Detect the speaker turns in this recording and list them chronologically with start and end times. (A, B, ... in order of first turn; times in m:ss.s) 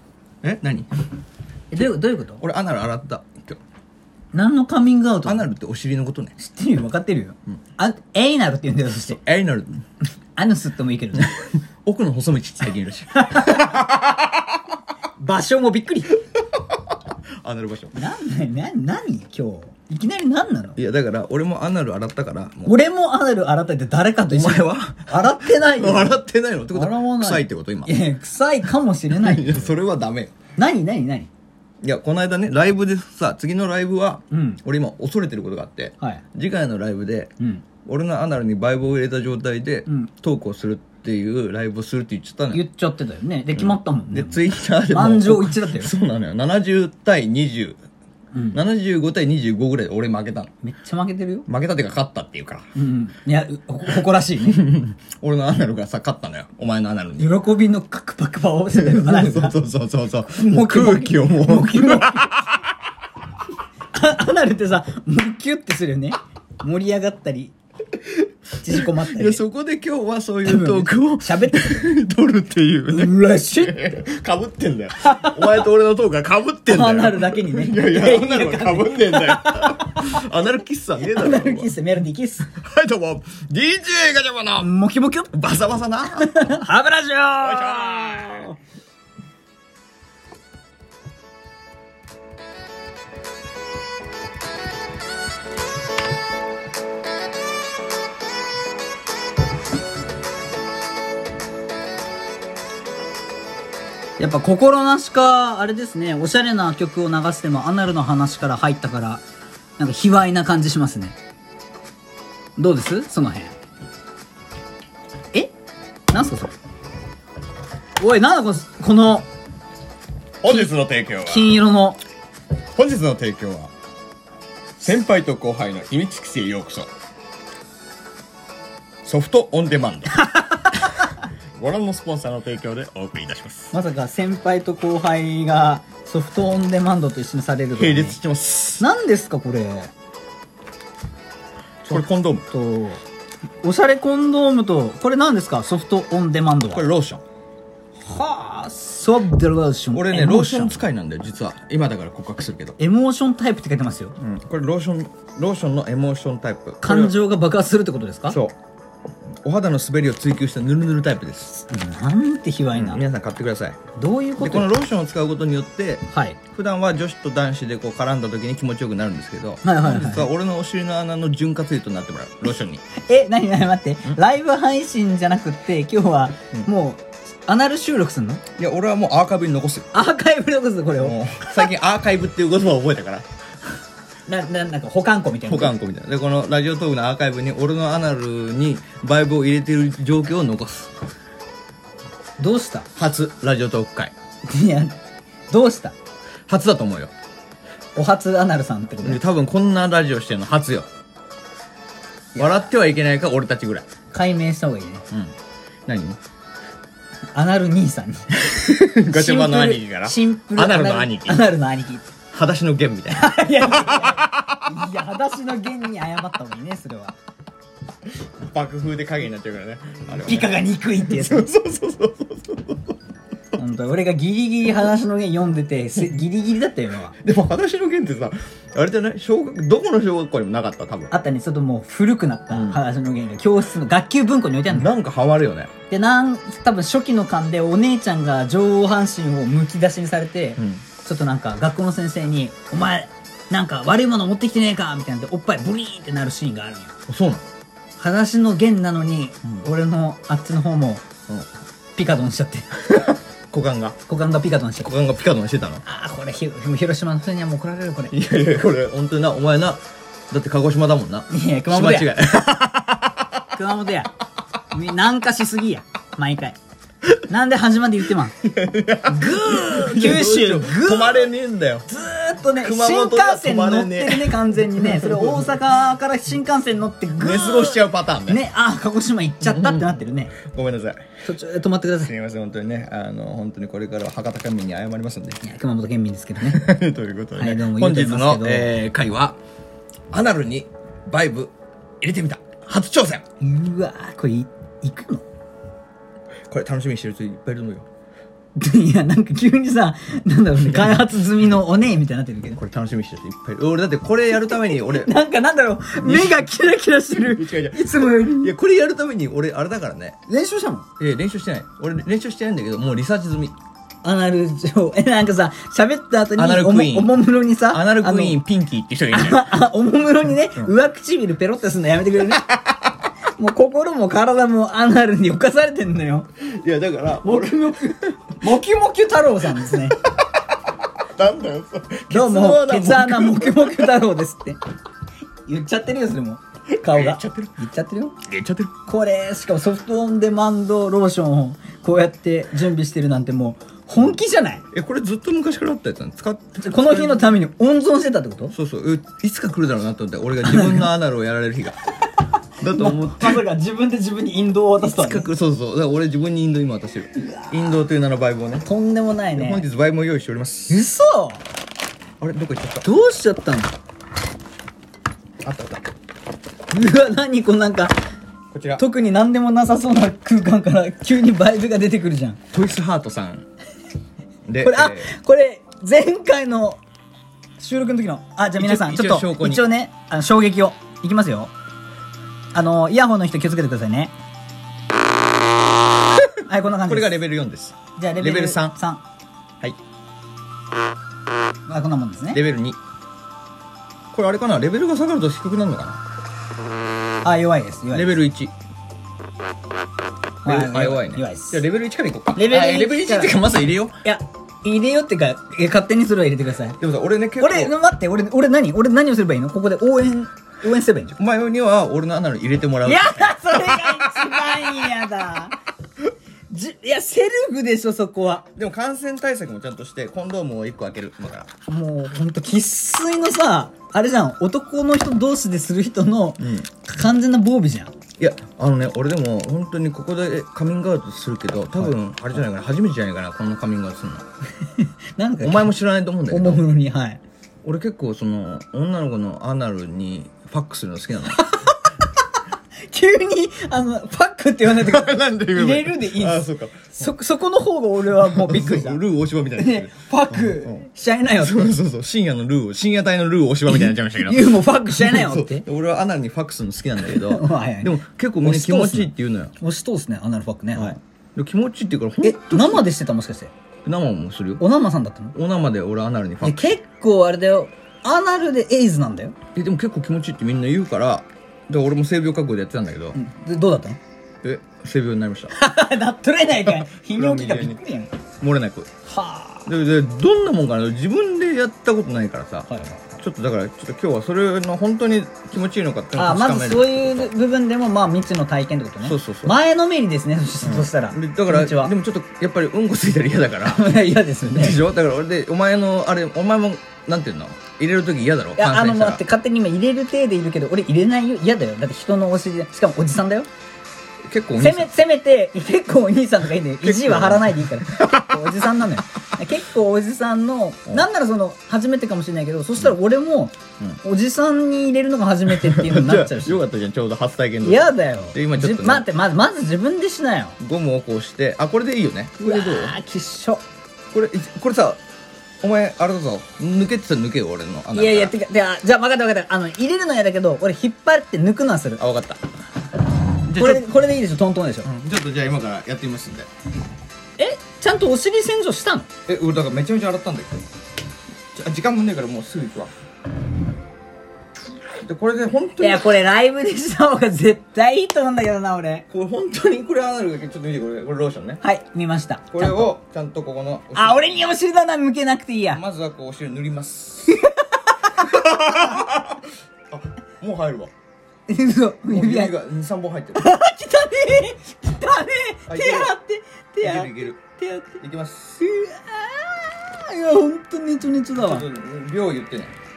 0:00.4-0:00.9 A
0:01.7-0:02.4 B
0:01.7-0:03.6 A
0:04.3-0:05.5 B
0:05.2-0:06.4 A
0:06.4-0:09.2 B
0:09.1-0:09.8 A
0:10.4-0:11.4 B
0:11.2-0:14.6 A
0:13.2-0:13.8 B
0:15.2-0:16.2 B
0:17.4-0:18.0 A
0:17.9-0:20.8 B
0:20.8-0:22.8 A
0:22.7-0:26.2 B
0:24.3-0:28.0 A
0:26.7-0:29.7 B
0:29.1-0:30.3 A
0:30.6-0:31.3 B
0:31.8-0:37.3 A
0:34.3-0:34.6 B
0:37.4-0:37.6 B
0:37.8-0:42.6 A
0:42.5-0:45.9 B
0:43.6-0:47.8 A
0:48.3-0:48.6 B
0:48.5-0:50.5 A
0:50.6-0:51.5 B
0:51.5-0:52.7 A
0:52.8-0:54.6 B
0:54.4-0:57.3 A
0:57.2-0:59.6 B
0:58.7-1:02.7 A
1:00.4-1:02.5 B
1:03.9-1:07.5 B
1:08.0-1:21.8 A
1:08.6-1:09.4 B
1:10.4-1:12.0 B
1:12.9-1:14.0 B
1:15.0-1:15.6 B
1:16.7-1:20.2 B
1:21.1-1:22.5 B
1:22.5-1:24.7 A
1:24.6-1:25.3 B
1:25.3-1:26.3 A
1:26.2-1:28.6 B
1:27.4-1:28.5 A
1:44.2-1:49.2 B
1:49.8-1:51.2 B
1:52.6-1:53.5 B
1:56.1-1:56.5 B
1:58.0-1:59.3 B
2:00.4-2:01.6 A
2:01.2-2:02.0 B
2:02.8-2:03.7 A
2:04.8-2:06.9 A
2:09.0-2:13.7 A
2:10.2-2:10.7 B
2:13.7-2:18.2 B
2:17.8-2:18.9 A
2:18.8-2:19.9 B
2:21.8-2:22.5 A
2:21.9-2:23.0 B
2:23.6-2:26.8 B
2:26.7-2:27.2 A
2:28.1-2:30.9 B
2:29.9-2:32.8 A
2:32.8-2:34.2 B
2:34.2-2:37.2 A
2:36.8-2:38.4 B
2:38.3-2:38.6 A
2:39.4-2:41.5 A
2:41.6-2:43.0 B
2:42.8-2:43.8 A
2:44.0-2:44.7 B
2:44.4-2:52.8 A
2:46.1-2:46.4 B
2:49.6-2:50.3 B
2:53.0-2:58.4 B
2:58.6-2:59.9 A
2:59.9-3:01.7 B
3:01.0-3:03.3 A
3:04.3-3:05.8 B
3:05.5-3:10.9 A
3:12.4-3:12.9 B
3:13.0-3:14.1 A
3:14.5-3:15.0 B
3:15.5-3:15.9 B
3:16.5-3:17.1 A
3:18.0-3:19.2 B
3:19.0-3:20.9 A
3:22.4-3:23.9 A
3:24.1-3:25.1 B
3:25.9-3:26.2 A
3:27.3-3:32.1 B
3:28.4-3:31.4 A
3:32.3-3:34.7 A
3:33.1-3:37.2 B
3:38.2-3:43.0 A
3:40.3-3:41.5 B
3:43.6-3:47.2 B
3:47.2-3:51.1 A
3:51.1-3:54.9 B
3:52.5-3:52.8 A
3:54.7-3:55.7 A
3:55.9-4:06.9 B
4:00.6-4:00.8 A
4:07.1-4:07.4 A
4:08.0-4:11.0 B
4:12.0-4:12.8 B
4:12.9-4:14.0 A
4:14.1-4:14.9 B
4:14.8-4:15.8 A
4:15.8-4:18.1 B
4:18.1-4:23.4 A
4:21.3-4:22.1 B
4:23.5-4:24.1 B
4:24.7-4:26.6 B
4:27.3-4:28.4 B
4:28.4-4:31.9 A
4:29.1-4:31.3 B
4:31.9-4:40.4 B
4:32.6-4:35.4 A
4:37.2-4:38.4 A
4:39.4-4:41.0 A
4:41.2-4:42.1 B
4:42.0-4:45.4 A
4:45.4-4:46.6 B
4:46.4-4:49.4 A
4:47.4-4:48.8 B
4:50.1-4:53.2 A
4:53.4-4:55.2 B
4:56.5-4:57.9 A
4:58.6-5:02.6 B
5:02.5-5:05.1 A
5:04.4-5:08.5 B
5:06.0-5:06.5 A
5:07.3-5:10.2 A
5:10.3-5:10.9 B
5:11.0-5:13.5 A
5:14.0-5:18.4 B
5:16.4-5:19.5 A
5:19.1-5:22.5 B
5:22.3-5:22.8 A
5:23.4-5:26.3 B
5:26.4-5:28.0 A
5:27.2-5:30.0 B
5:31.2-5:34.0 A
5:32.1-5:34.6 B
5:35.5-5:38.2 B
5:36.8-5:37.6 A
5:38.2-5:38.7 A
5:38.9-5:44.6 B
5:44.7-5:47.4 A
5:46.6-5:48.5 B
5:48.5-5:51.8 A
5:50.5-5:50.9 B
5:52.6-5:53.5 A
5:52.7-5:55.3 B
5:54.8-5:58.7 A
5:57.2-5:57.5 B
5:58.6-5:59.6 B
5:59.3-6:00.8 A
6:00.7-6:01.4 B
6:02.2-6:02.9 A
6:02.8-6:03.7 B
6:05.4-6:05.8 A
6:06.7-6:08.0 B
6:08.5-6:08.8 A
6:08.8-6:12.4 B
6:12.5-6:13.5 A
6:14.5-6:15.1 A
6:14.6-6:16.8 B
6:17.6-6:21.5 B
6:18.6-6:19.7 A
6:22.5-6:24.1 B
6:26.4-6:27.2 B
6:26.9-6:28.8 A
6:28.0-6:29.0 B
6:31.7-6:32.4 B
6:32.3-6:32.8 A
6:34.1-6:36.0 A
6:37.2-6:38.2 B
6:37.9-6:38.5 A
6:40.4-6:44.0 A
6:40.4-6:41.6 B
6:42.4-6:43.4 B
6:44.0-6:46.8 B
6:46.8-6:47.8 A
6:47.4-6:51.2 B
6:51.2-6:54.6 A
6:52.8-6:55.6 B
6:56.5-6:58.5 B
6:58.6-7:01.5 A
7:01.7-7:07.9 B
7:06.4-7:06.7 A
7:08.2-7:14.2 A
7:14.7-7:15.7 B
7:15.4-7:16.6 A
7:16.3-7:17.2 B
7:17.6-7:21.4 A
7:21.4-7:22.1 B
7:22.8-7:29.0 B
7:24.7-7:27.1 A
7:28.2-7:39.5 A
7:29.6-7:31.8 B
7:33.7-7:35.7 B
7:37.0-7:41.0 B
7:40.8-7:42.9 A
7:42.2-7:43.5 B
7:43.8-7:44.6 A
7:44.6-7:45.4 B
7:45.3-7:46.7 A
7:46.4-7:49.4 B
7:49.6-7:53.2 A
7:53.2-7:54.0 B
7:54.4-7:55.5 A
7:55.5-7:58.1 B
7:56.7-7:57.8 A
7:58.4-7:58.9 A
7:59.1-7:59.7 B
7:59.7-8:07.3 A
8:02.7-8:03.0 B
8:06.2-8:11.9 B
8:09.0-8:09.6 A
8:10.6-8:13.9 A
8:13.6-8:14.8 B
8:14.4-8:19.2 A
8:18.6-8:23.5 B
8:24.2-8:24.9 A
8:24.6-8:36.6 B
8:26.8-8:28.8 A
8:35.5-8:39.1 A
8:37.6-8:40.6 B
8:40.6-8:43.0 A
8:42.4-8:43.6 B
8:44.1-8:45.0 A
8:45.6-8:48.3 A
8:47.9-8:52.0 B
8:52.0-8:52.4 A
8:53.5-8:53.9 A
8:53.5-8:54.9 B
8:54.8-8:56.5 A
8:57.4-8:59.1 B
8:59.3-9:00.6 A
9:01.5-9:02.9 A
9:04.9-9:06.1 A
9:05.8-9:09.1 B
9:09.1-9:11.6 A
9:11.6-9:12.8 B
9:12.5-9:14.4 A
9:13.9-9:15.8 B
9:15.7-9:17.4 A
9:17.3-9:18.2 B
9:18.1-9:20.9 A
9:21.5-9:22.5 B
9:22.1-9:23.5 A
9:23.4-9:28.0 B
9:25.7-9:26.2 A
9:26.8-9:27.4 A
9:28.0-9:28.6 A
9:28.6-9:31.6 B
9:31.4-9:32.8 A